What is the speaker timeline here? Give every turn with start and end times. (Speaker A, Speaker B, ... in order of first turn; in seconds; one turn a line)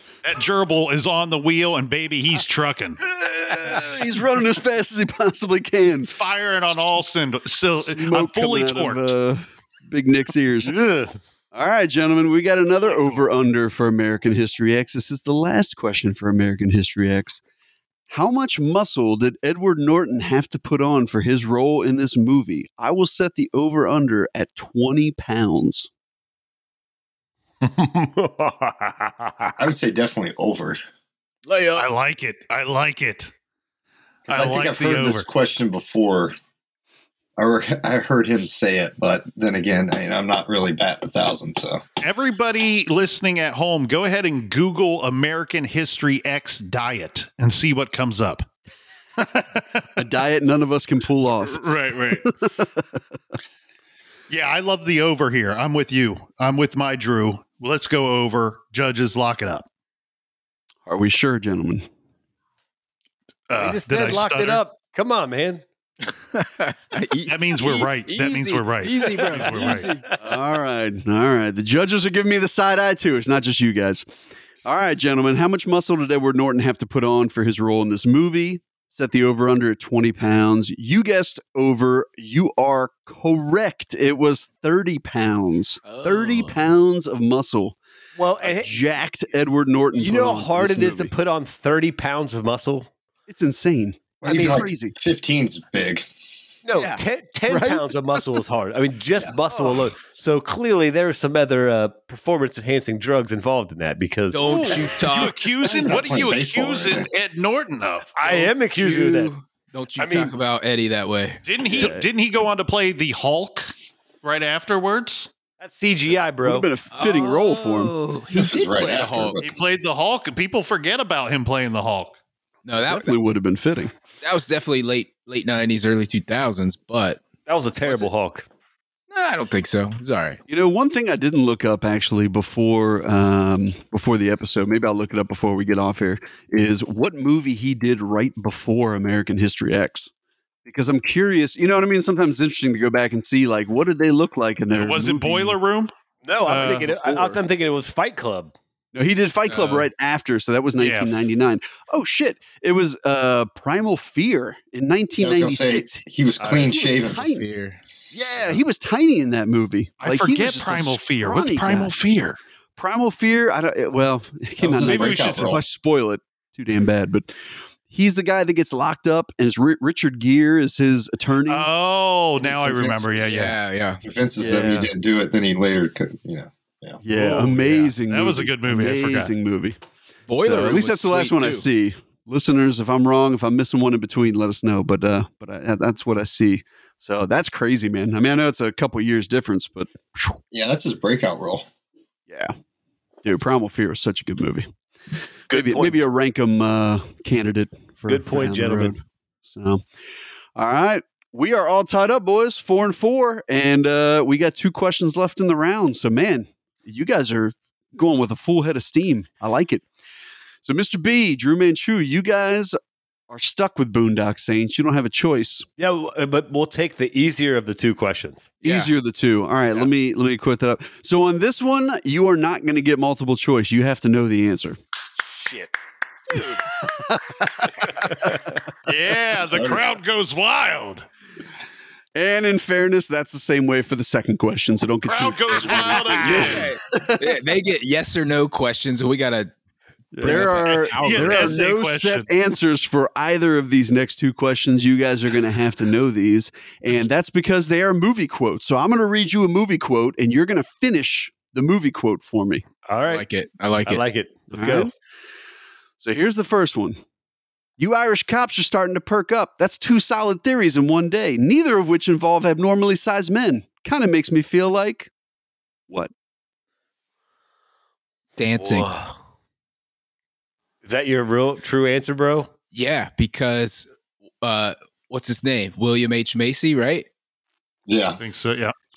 Speaker A: 0.2-3.0
Speaker B: 3.1-6.1
Speaker A: 6.1-9.1
Speaker B: 7.8-10.7
Speaker C: 10.6-11.2
Speaker B: 11.5-17.4
Speaker B: 18.1-25.9
Speaker C: 27.6-29.6
Speaker D: 29.6-30.8
Speaker E: 31.4-31.9
Speaker A: 31.7-33.3
Speaker D: 34.3-36.3
Speaker A: 34.3-35.2
Speaker D: 37.4-41.8
Speaker A: 42.0-48.5
Speaker A: 49.2-49.9
Speaker B: 50.0-53.1
Speaker A: 51.4-52.3
Speaker A: 54.3-59.6
Speaker B: 60.9-61.8
Speaker A: 63.5-64.6
Speaker C: 63.5-65.6
Speaker E: 66.3-70.0
Speaker A: 67.2-69.9
Speaker B: 70.2-74.0
Speaker B: 74.6-87.8
Speaker E: 85.8-86.6
Speaker C: 88.2-88.8
Speaker B: 88.4-91.1
Speaker C: 89.9-92.9
Speaker B: 93.3-94.9
Speaker D: 94.2-96.1
Speaker C: 96.6-104.9
Speaker B: 96.8-98.3
Speaker B: 99.5-99.9
Speaker E: 104.3-105.5
Speaker B: 104.5-104.9
Speaker A: 105.0-108.3
Speaker D: 105.7-107.1
Speaker C: 108.2-109.3
Speaker E: 108.2-111.4
Speaker C: 110.0-110.3
Speaker A: 111.4-113.7
Speaker B: 111.7-112.0
Speaker A: 114.2-115.3
Speaker C: 115.6-116.7
Speaker B: 116.4-117.9
Speaker E: 116.9-119.4
Speaker D: 118.3-119.5
Speaker A: 119.4-122.2
Speaker E: 122.6-123.1
Speaker B: 122.8-123.9
Speaker E: 124.2-127.2
Speaker C: 127.5-128.5
Speaker E: 127.8-128.1
Speaker E: 129.1-130.4
Speaker B: 130.5-140.1
Speaker B: 140.6-145.6
Speaker A: 144.7-145.9
Speaker C: 146.2-148.5
Speaker A: 146.4-146.9
Speaker B: 146.5-147.4
Speaker B: 148.9-157.4
Speaker E: 149.5-149.9
Speaker A: 150.8-151.2
Speaker D: 155.2-157.3
Speaker C: 156.4-156.9
Speaker E: 156.9-157.8
Speaker B: 158.1-161.9
Speaker A: 160.0-162.4
Speaker B: 162.8-171.7
Speaker D: 164.6-165.6
Speaker A: 164.7-165.4
Speaker A: 171.5-173.6
Speaker D: 172.4-177.0
Speaker E: 173.2-174.0
Speaker B: 174.4-174.9
Speaker C: 174.4-174.8
Speaker B: 177.0-179.8
Speaker A: 177.1-179.3
Speaker E: 180.3-181.7
Speaker B: 180.4-190.4
Speaker D: 190.5-191.7
Speaker B: 193.2-194.7
Speaker C: 195.5-196.0
Speaker B: 195.5-199.8
Speaker C: 198.1-198.9
Speaker B: 200.5-209.8
Speaker B: 210.6-212.8
Speaker B: 213.3-215.7
Speaker C: 215.8-218.6
Speaker B: 218.6-224.8
Speaker C: 225.2-225.8
Speaker C: 227.8-228.4
Speaker A: 228.8-231.1
Speaker D: 229.5-229.8
Speaker B: 232.1-237.3
Speaker A: 235.0-236.7
Speaker C: 236.1-236.6
Speaker E: 236.2-239.5
Speaker C: 240.1-240.5
Speaker E: 240.1-241.6
Speaker B: 240.2-252.6
Speaker A: 241.0-242.3
Speaker C: 252.9-253.2
Speaker E: 253.1-254.0
Speaker C: 253.8-254.9
Speaker B: 254.5-254.9
Speaker B: 256.0-257.0
Speaker B: 257.8-265.1
Speaker E: 268.4-268.9
Speaker C: 268.6-269.1
Speaker C: 270.8-272.5
Speaker E: 272.7-273.9
Speaker E: 274.4-277.1
Speaker D: 277.9-278.2
Speaker A: 278.2-278.7